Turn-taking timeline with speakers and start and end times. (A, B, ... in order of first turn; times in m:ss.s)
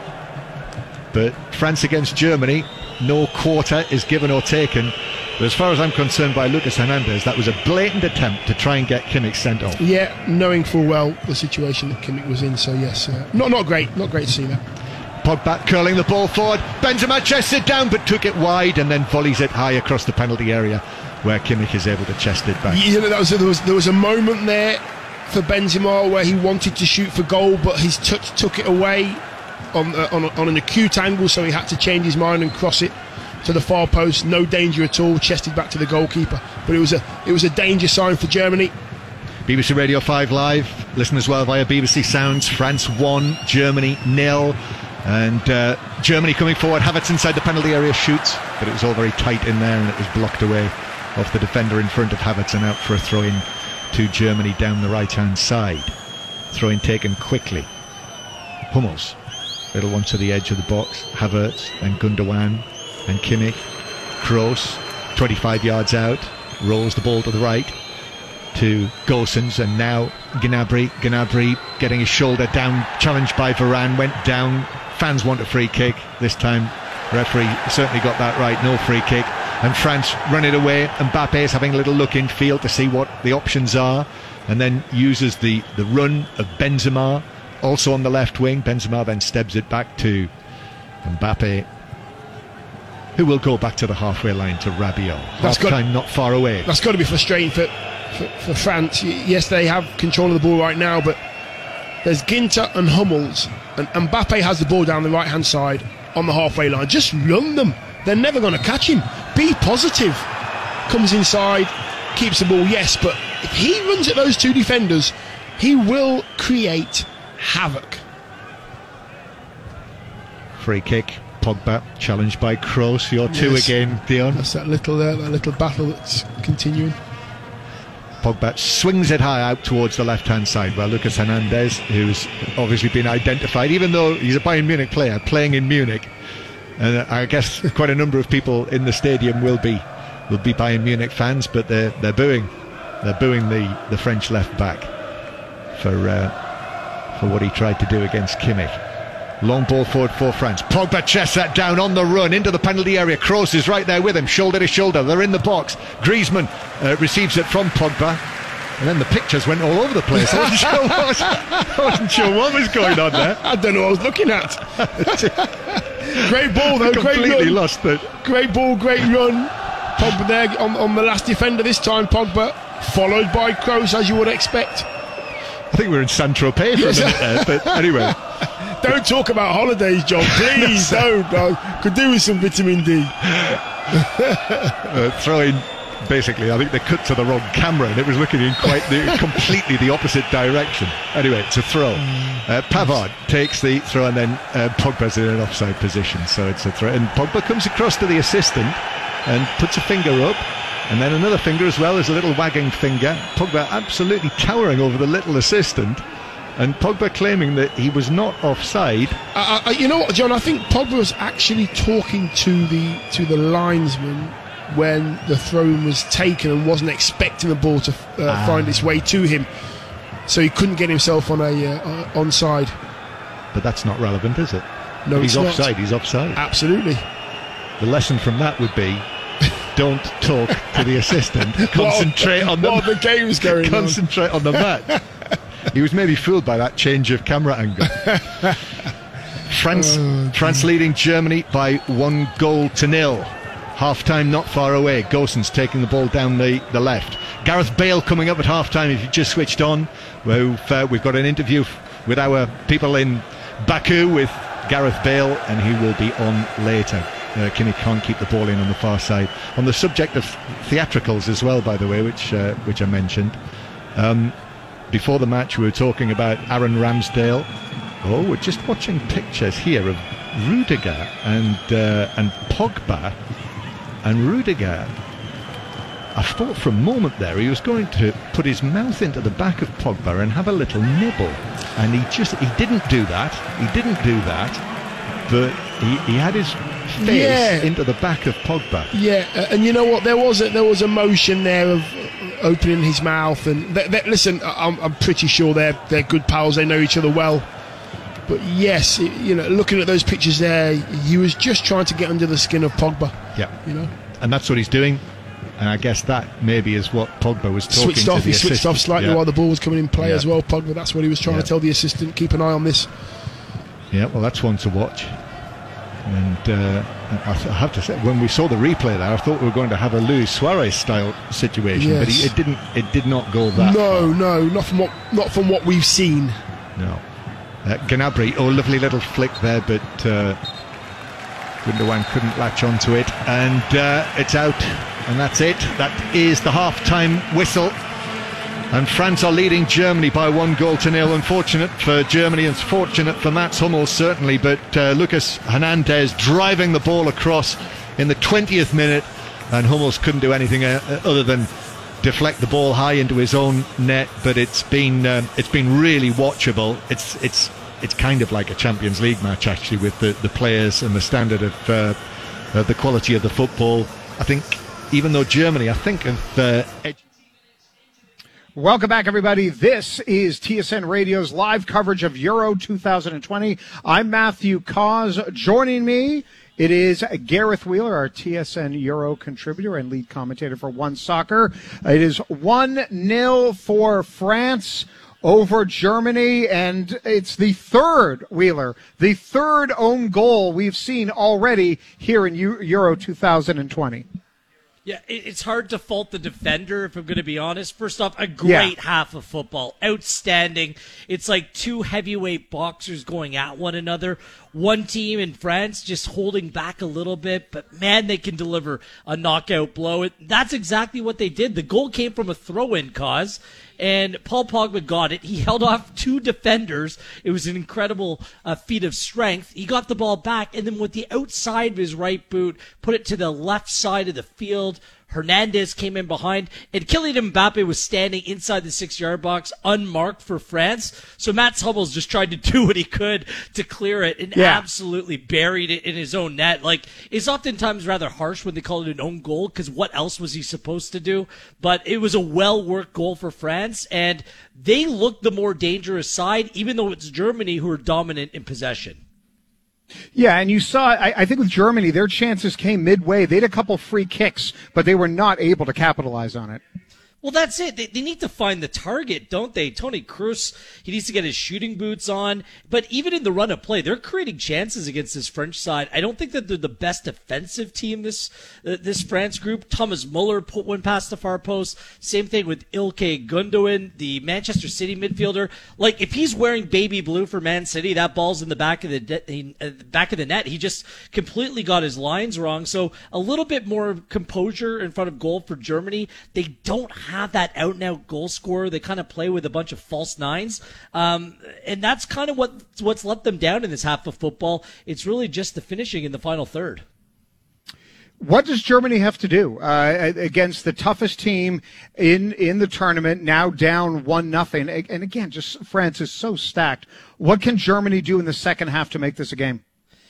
0:01.1-0:09.8 A
0:09.8-0:14.6 B
0:15.2-0:22.9 A
0:22.7-0:29.2 B
0:29.7-0:38.7 B
0:39.4-0:56.0 A
0:56.5-0:57.7 A
0:58.7-0:59.2 A
0:59.7-1:03.6 A
1:04.2-1:07.8 A
1:08.5-1:30.3 A
1:31.0-1:31.7 A
1:33.1-1:36.7 A
1:35.4-1:35.8 B
1:36.6-1:41.2 B
1:42.0-1:50.3 B
1:50.9-1:58.0 B
2:00.6-2:04.4 A
2:03.3-2:03.7 B
2:04.3-2:07.0 B
2:08.2-2:16.1 A
2:16.8-2:22.5 A
2:23.0-2:24.9 A
2:25.7-2:26.3 A
2:27.1-2:28.8 A
2:29.4-2:38.2 A
2:38.8-2:43.4 A
2:40.2-2:54.9 B
2:44.8-2:45.4 A
2:46.0-2:48.1 A
2:55.7-2:58.2 A
2:56.7-3:04.7 B
3:00.2-3:01.1 A
3:04.8-3:26.0 A
3:12.1-3:12.4 B
3:26.6-3:29.2 A
3:29.3-3:39.5 B
3:38.3-3:39.1 A
3:40.3-3:42.8 B
3:43.5-3:46.4 A
3:45.0-3:45.7 B
3:46.3-3:47.0 B
3:47.8-3:49.0 A
3:49.7-3:52.9 A
3:51.6-3:54.0 B
3:53.4-3:55.0 A
3:54.5-3:55.0 B
3:55.7-3:58.5 A
3:58.1-3:58.5 B
3:59.4-4:23.4 A
3:59.7-4:00.7 B
4:24.0-4:24.3 A
4:24.9-4:27.5 A
4:28.0-4:33.2 A
4:34.0-4:34.9 A
4:36.1-4:44.6 A
4:45.3-4:48.9 A
4:47.0-4:47.7 B
4:48.9-4:57.5 B
4:58.3-5:03.9 B
5:04.2-5:05.0 A
5:05.6-5:09.2 A
5:07.7-5:12.9 B
5:10.0-5:10.3 A
5:11.2-5:11.5 A
5:13.9-5:15.1 A
5:16.0-5:24.2 A
5:21.7-5:22.3 B
5:23.5-5:26.4 B
5:26.8-5:27.0 A
5:27.6-5:30.4 A
5:31.6-5:37.8 A
5:38.7-5:51.5 A
5:52.0-6:02.0 A
6:02.5-6:07.0 A
6:08.6-6:34.0 C
6:34.8-7:29.0 D
6:38.4-6:38.7 C
7:14.3-7:14.6 C
7:30.1-7:36.6 C
7:37.2-8:16.8 D
8:18.2-8:29.6 C